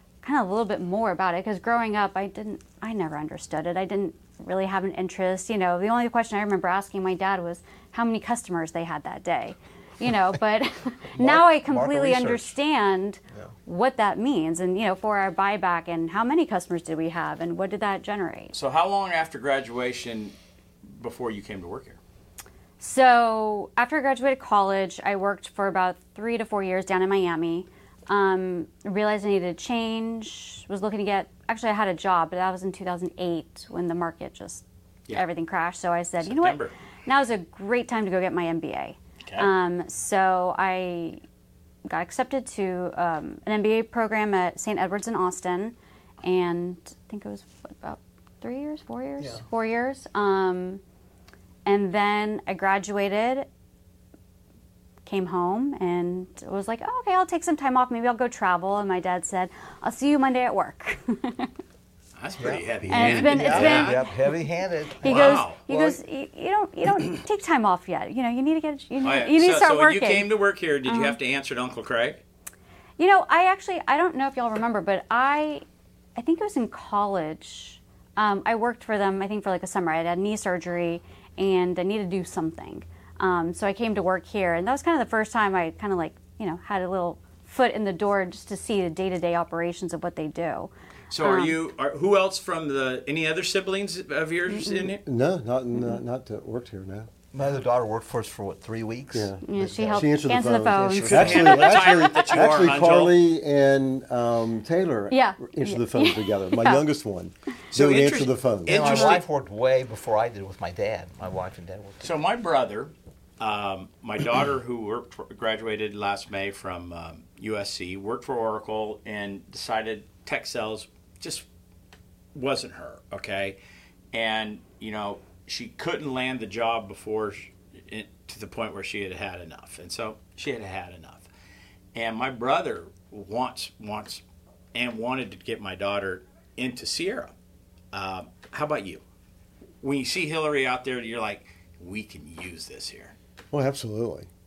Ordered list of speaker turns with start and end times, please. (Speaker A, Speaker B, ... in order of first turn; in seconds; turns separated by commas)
Speaker A: 0.2-18.5, Speaker B: 11.2-12.5, Speaker C: 18.5-22.0, Speaker A: 22.8-41.2, Speaker C: 36.2-36.7, Speaker C: 39.2-39.5, Speaker A: 41.9-50.8, Speaker A: 51.6-53.5, Speaker A: 55.0-61.5, Speaker C: 62.2-64.0, Speaker D: 62.4-63.8, Speaker A: 62.9-64.1, Speaker B: 63.2-65.7, Speaker A: 65.0-70.3, Speaker C: 65.0-65.6, Speaker C: 69.0-72.2, Speaker A: 70.8-71.2, Speaker A: 73.0-75.6, Speaker A: 76.2-90.7, Speaker C: 91.1-95.0, Speaker A: 91.2-91.6, Speaker A: 94.5-95.0, Speaker D: 95.0-97.1, Speaker B: 97.3-100.1, Speaker D: 99.1-109.0, Speaker A: 99.4-102.2, Speaker C: 100.9-103.2, Speaker A: 105.1-106.8, Speaker C: 107.7-109.2, Speaker B: 108.7-112.1, Speaker C: 112.0-121.4, Speaker C: 122.3-123.6, Speaker C: 124.1-131.3, Speaker C: 131.9-134.2, Speaker C: 134.7-137.3, Speaker C: 137.9-139.0, Speaker C: 139.8-143.1, Speaker D: 143.5-144.3